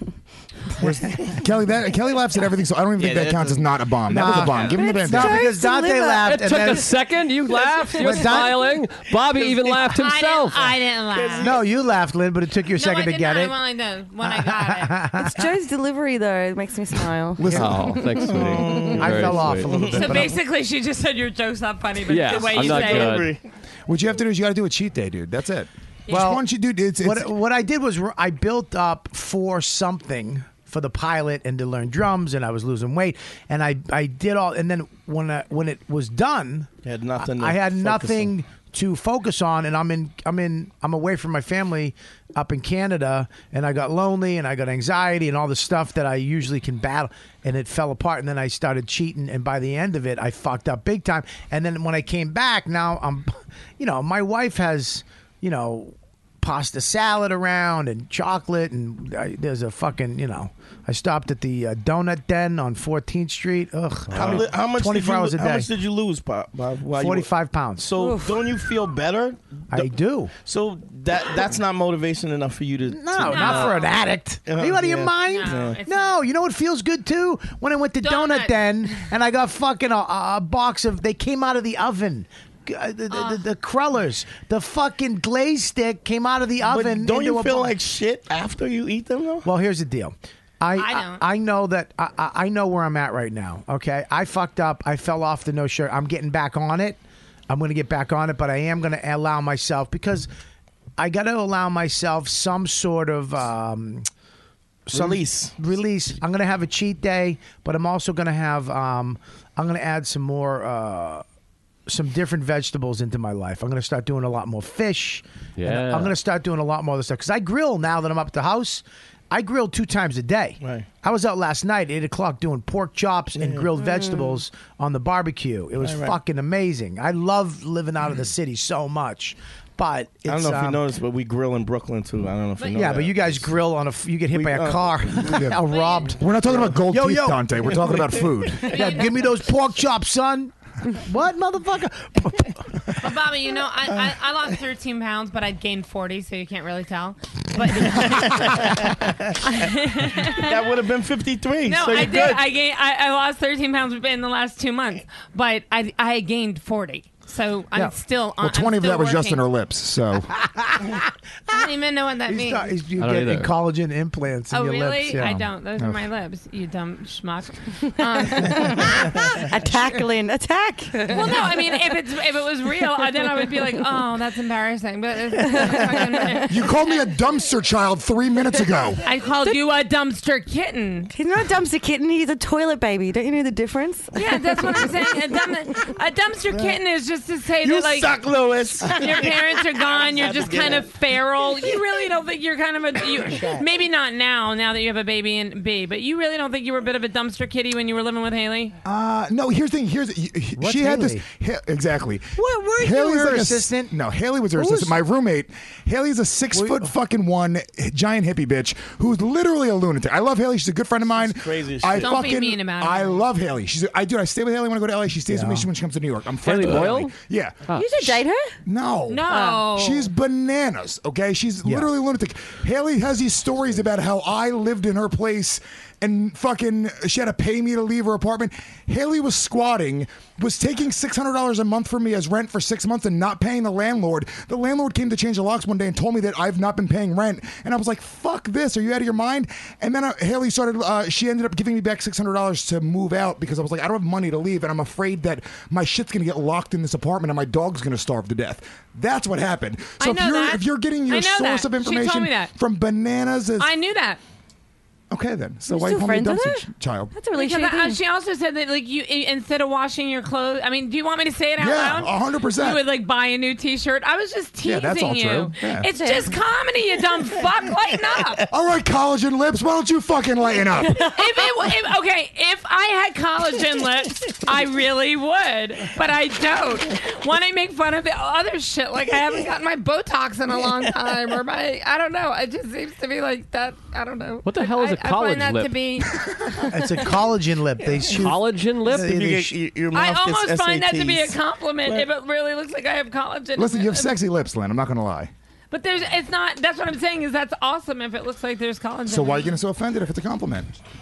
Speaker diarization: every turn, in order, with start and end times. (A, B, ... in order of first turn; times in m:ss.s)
0:00.8-0:05.5 A
0:04.1-0:06.9 B
0:04.7-0:06.8 C
0:06.2-0:10.7 D
0:08.0-0:08.7 B
0:10.0-0:11.5 E
0:11.1-0:11.6 F
0:11.4-0:13.6 B
0:12.8-0:15.0 E
0:14.2-0:15.4 B
0:15.1-0:17.6 C
0:17.4-0:18.6 A
0:17.4-0:17.8 B
0:17.5-0:19.9 D
0:18.2-0:20.2 F
0:18.9-0:20.4 B
0:19.9-0:23.2 E
0:22.1-0:23.3 D
0:22.3-0:23.4 F
0:23.9-0:27.3 A
0:26.1-0:26.4 B
0:27.0-1:05.7 B
0:36.8-0:38.3 F
1:04.1-1:07.3 F
1:07.0-1:07.9 B
1:07.8-1:13.8 F
1:08.0-1:08.5 C
1:09.7-1:10.3 B
1:12.9-1:27.7 B
1:13.2-1:13.9 E
1:14.5-1:15.8 F
1:15.2-1:16.2 E
1:18.0-1:19.1 E
1:23.1-1:23.4 E
1:26.6-1:29.5 F
1:29.4-1:40.3 B
1:30.8-1:31.2 E
1:41.0-1:44.1 B
1:44.9-1:51.2 B
1:44.9-1:45.6 F
1:51.9-2:10.8 B
1:55.6-1:56.1 D
2:00.6-2:00.9 F
2:03.4-2:03.7 F
2:03.8-2:04.4 C
2:05.8-2:06.2 F
2:10.3-2:13.5 F
2:12.7-2:18.0 B
2:14.3-2:15.4 F
2:15.3-2:15.6 A
2:15.6-2:16.2 E
2:16.2-2:18.8 A
2:18.6-2:23.0 B
2:18.7-2:19.3 E
2:23.0-2:28.7 E
2:27.8-2:29.4 F
2:29.4-2:30.7 E
2:30.3-2:32.5 F
2:31.6-2:39.4 E
2:38.4-2:40.4 A
2:40.4-2:41.7 B
2:41.5-2:42.7 E
2:42.3-2:45.4 B
2:43.0-2:43.5 D
2:44.5-2:49.2 E
2:45.2-2:46.0 A
2:48.3-2:51.8 C
2:51.1-2:56.6 E
2:55.5-2:56.4 C
2:56.5-2:59.0 A
2:59.0-3:01.1 E
3:01.1-3:05.3 C
3:04.2-3:08.2 E
3:06.5-3:06.8 F
3:07.6-3:10.9 F
3:08.9-3:18.8 E
3:18.8-4:13.7 A
3:20.6-3:21.2 B
3:22.4-3:23.9 B
3:24.5-3:25.0 B
3:26.5-3:26.9 B
3:31.1-3:32.2 F
3:32.0-3:33.2 E
3:35.3-3:35.7 B
3:36.4-3:37.1 D
3:37.7-3:38.6 C
3:39.1-3:40.1 E
3:39.3-3:39.7 C
3:41.6-3:41.9 B
4:10.0-4:12.5 E
4:13.6-4:14.2 E
4:15.1-4:17.1 A
4:15.7-4:18.0 C
4:17.3-4:28.4 E
4:21.6-4:22.9 A
4:24.6-4:25.9 A
4:25.8-4:26.3 C
4:28.5-4:31.1 A
4:31.0-4:46.7 E
4:44.4-4:45.7 D
4:46.7-4:49.5 B
4:48.1-4:49.2 D
4:48.9-4:52.0 F
4:49.9-4:54.1 E
4:53.6-4:55.3 A
4:55.7-4:59.5 E
4:59.1-5:00.7 A